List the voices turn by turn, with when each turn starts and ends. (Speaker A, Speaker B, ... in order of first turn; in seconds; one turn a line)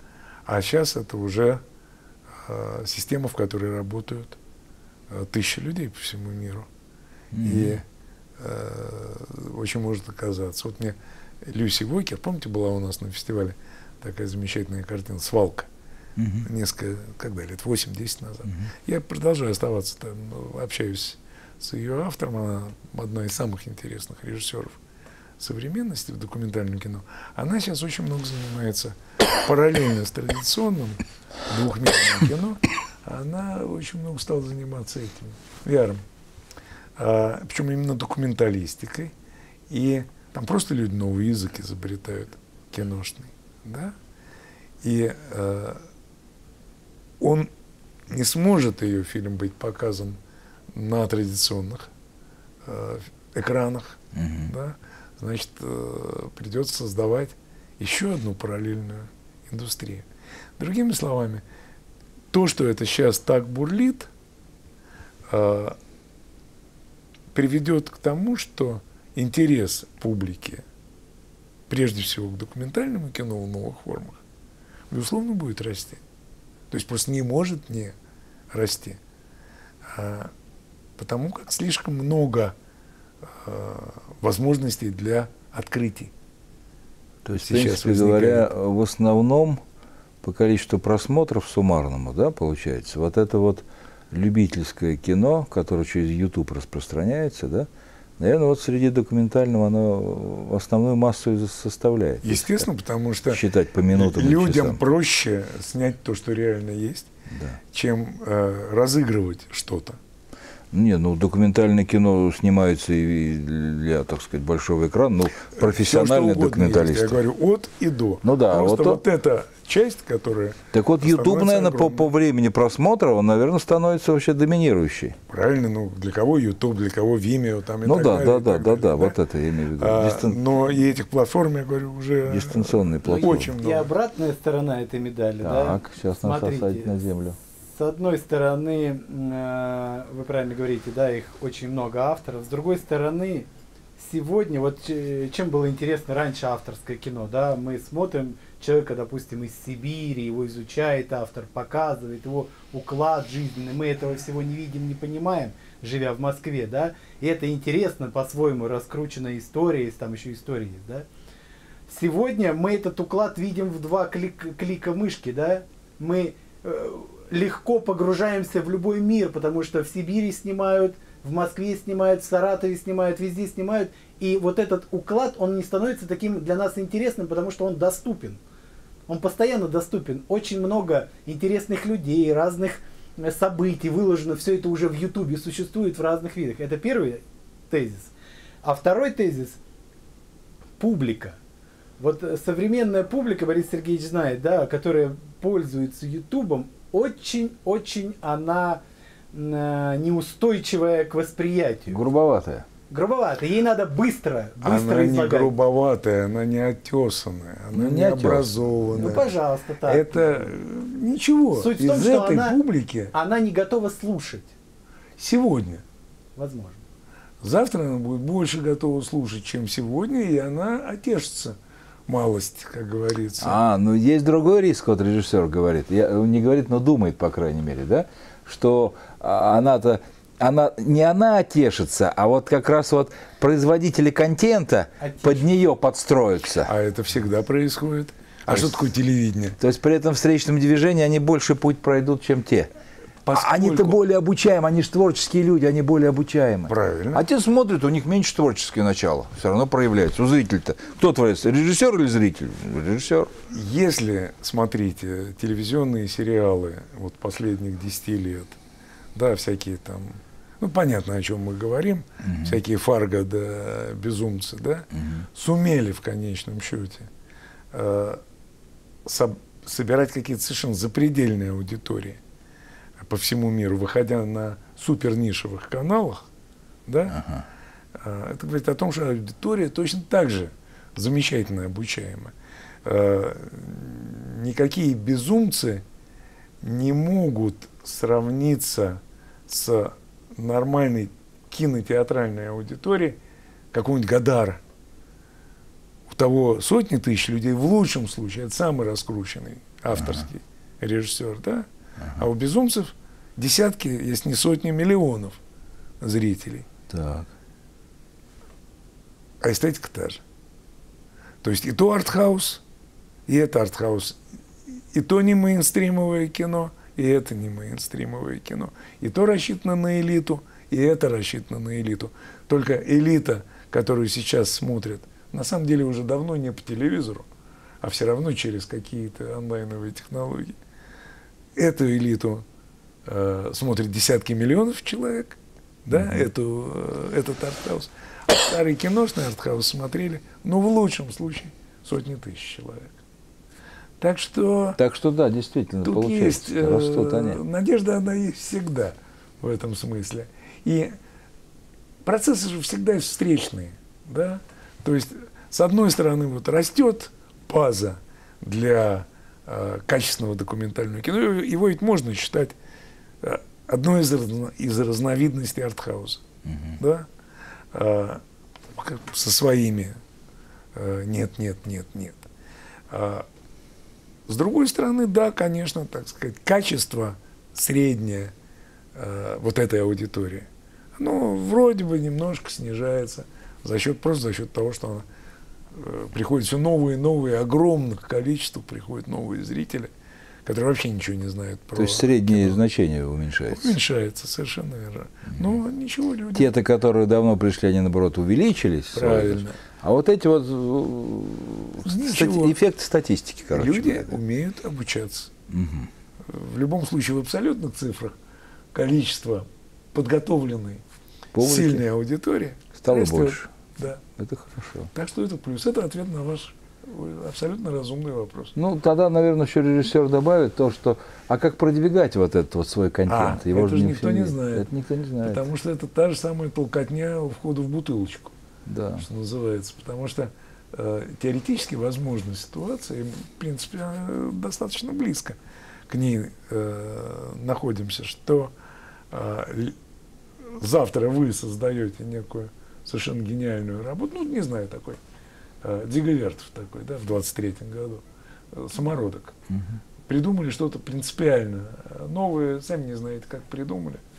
Speaker A: 0.5-1.6
Speaker A: 2.4-4.4
Speaker A: 5.1-6.7
Speaker B: 7.3-7.8
Speaker A: 7.4-7.8
Speaker A: 8.4-15.7
Speaker B: 16.2-16.5
Speaker A: 16.4-24.8
Speaker A: 25.4-36.0
Speaker A: 37.0-39.1
Speaker A: 39.7-44.0
Speaker A: 44.8-45.8
Speaker A: 47.2-47.5
Speaker A: 48.1-50.2
Speaker A: 50.7-51.9
Speaker A: 52.6-60.1
Speaker B: 54.1-54.5
Speaker A: 60.6-61.4
Speaker A: 62.3-64.1
Speaker A: 65.3-65.8
Speaker A: 67.3-70.6
Speaker A: 71.7-74.2
Speaker A: 74.9-76.0
Speaker A: 76.7-78.0
Speaker A: 78.5-79.0
Speaker A: 79.8-80.3
Speaker A: 81.0-82.6
Speaker A: 83.3-86.1
Speaker B: 87.2-89.6
Speaker A: 87.3-88.5
Speaker B: 90.2-97.7
Speaker B: 98.2-102.7
Speaker A: 102.2-107.1
Speaker B: 103.3-104.8
Speaker B: 107.3-107.6
Speaker A: 107.7-110.0
Speaker B: 110.7-117.2
Speaker A: 115.6-122.1
Speaker B: 118.2-119.0
Speaker B: 120.7-125.2
Speaker A: 125.3-129.2
Speaker B: 127.8-130.4
Speaker A: 129.8-133.9
Speaker B: 132.3-133.5
Speaker C: 133.2-137.1
Speaker B: 135.4-137.4
Speaker C: 137.7-161.1
Speaker C: 161.9-178.4
Speaker C: 179.1-189.6
Speaker C: 190.8-191.4
Speaker C: 192.0-198.8
Speaker C: 199.3-202.0
Speaker B: 201.9-202.7
Speaker C: 202.9-205.5
Speaker A: 204.6-209.3
Speaker B: 207.7-208.5
Speaker C: 208.9-210.5
Speaker A: 209.9-213.1
Speaker C: 211.5-212.6
Speaker C: 213.1-214.5
Speaker A: 215.2-215.8
Speaker C: 216.4-216.8
Speaker A: 217.4-223.6
Speaker B: 223.4-236.7
Speaker C: 235.0-235.5
Speaker A: 236.7-239.6
Speaker B: 238.5-238.8
Speaker B: 239.6-242.7
Speaker A: 243.2-244.0
Speaker B: 243.3-253.3
Speaker A: 246.7-247.2
Speaker A: 253.5-258.6
Speaker A: 259.1-267.1
Speaker B: 262.2-262.6
Speaker B: 264.9-265.2
Speaker A: 267.7-268.2
Speaker A: 269.1-272.2
Speaker A: 273.0-276.3
Speaker A: 276.9-277.2
Speaker B: 277.1-277.4
Speaker A: 278.0-285.8
Speaker A: 286.6-293.2
Speaker A: 293.7-294.6
Speaker A: 296.1-305.4
Speaker A: 306.0-306.7
Speaker B: 306.9-307.3
Speaker A: 309.4-310.2
Speaker A: 311.4-312.6
Speaker A: 313.3-314.2
Speaker A: 314.7-327.3
Speaker A: 327.8-330.6
Speaker A: 331.6-332.4
Speaker A: 333.1-343.0
Speaker B: 335.9-336.3
Speaker A: 344.0-344.8
Speaker B: 344.8-347.4
Speaker A: 345.8-350.9
Speaker A: 352.0-362.6
Speaker A: 363.2-366.2
Speaker B: 366.5-366.8
Speaker A: 366.8-367.1
Speaker A: 367.7-368.2
Speaker A: 368.7-370.0
Speaker A: 370.7-372.3
Speaker A: 372.9-373.3
Speaker A: 374.3-378.3
Speaker A: 378.9-385.1
Speaker A: 385.7-389.9
Speaker A: 390.4-392.6
Speaker B: 391.8-393.7
Speaker A: 393.5-396.5
Speaker B: 396.3-404.2
Speaker A: 398.9-399.6
Speaker A: 401.9-402.6
Speaker A: 403.5-405.3
Speaker B: 405.5-405.9
Speaker A: 406.2-408.2
Speaker A: 408.7-410.8
Speaker B: 411.3-411.8
Speaker A: 411.4-414.0
Speaker B: 412.8-413.5
Speaker B: 414.2-414.9
Speaker A: 414.9-418.5
Speaker B: 418.6-425.5
Speaker A: 423.1-424.7
Speaker A: 425.2-428.3
Speaker B: 428.7-429.1
Speaker A: 429.0-435.4
Speaker A: 435.9-438.5
Speaker A: 439.1-439.8
Speaker A: 440.4-445.0
Speaker A: 445.6-449.4
Speaker B: 449.5-449.8
Speaker A: 450.1-454.0